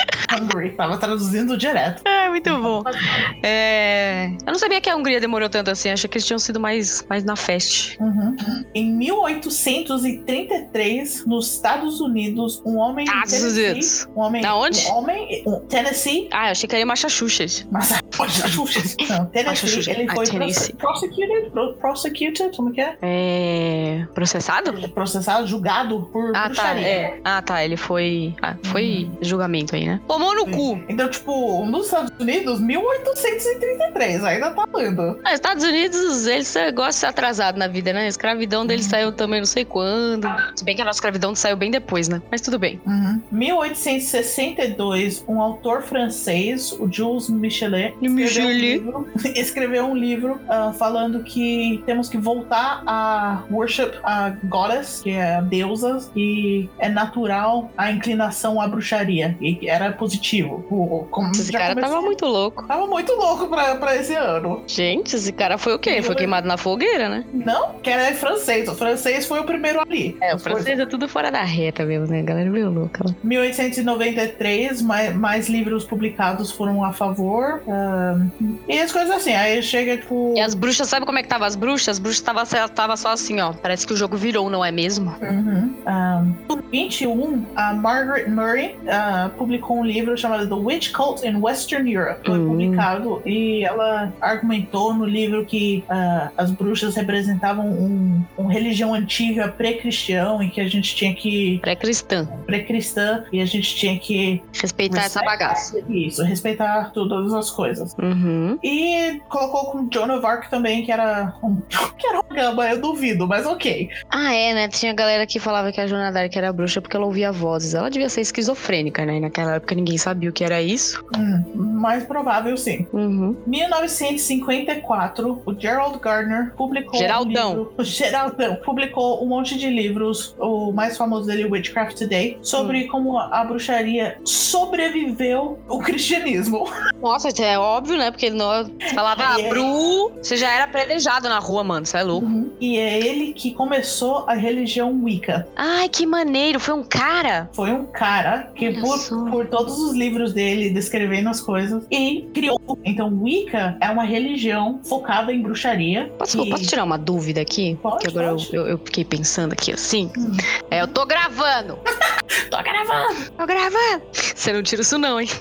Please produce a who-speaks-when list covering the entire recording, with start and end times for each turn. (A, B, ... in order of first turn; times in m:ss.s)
0:00.3-0:03.2 A
0:02.0-0:08.0 B
0:08.0-0:16.3 A
0:13.0-0:14.9 B
0:16.3-0:17.6 B
0:17.7-0:23.0 A
0:18.3-0:20.8 B
0:23.0-0:24.9 B
0:24.6-0:27.1 A
0:26.3-0:30.8 B
0:28.6-0:29.1 A
0:30.4-0:35.2 A
0:35.2-0:42.8 B
0:38.6-0:39.0 A
0:42.8-1:02.2 A
0:48.0-0:48.8 B
1:01.3-1:02.7 B
1:02.7-1:04.6 A
1:04.7-1:07.3 B
1:05.8-1:06.4 A
1:07.3-1:10.7 A
1:10.2-1:13.2 B
1:13.2-1:20.6 A
1:20.3-1:25.2 B
1:25.2-1:41.6 A
1:32.2-1:32.9 B
1:41.6-1:42.4 B
1:42.4-1:47.9 A
1:44.5-1:45.7 B
1:48.0-1:48.6 B
1:48.6-1:53.9 A
1:54.1-2:01.0 B
2:01.1-2:02.9 A
2:02.9-2:03.4 B
2:03.4-2:16.7 A
2:06.9-2:07.6 B
2:17.0-2:22.3 B
2:18.9-2:19.7 A
2:22.1-2:25.5 A
2:25.6-2:27.5 B
2:27.5-2:36.7 A
2:28.6-2:29.4 B
2:36.2-2:41.8 B
2:37.8-2:38.5 A
2:40.1-2:40.9 A
2:42.5-2:45.3 B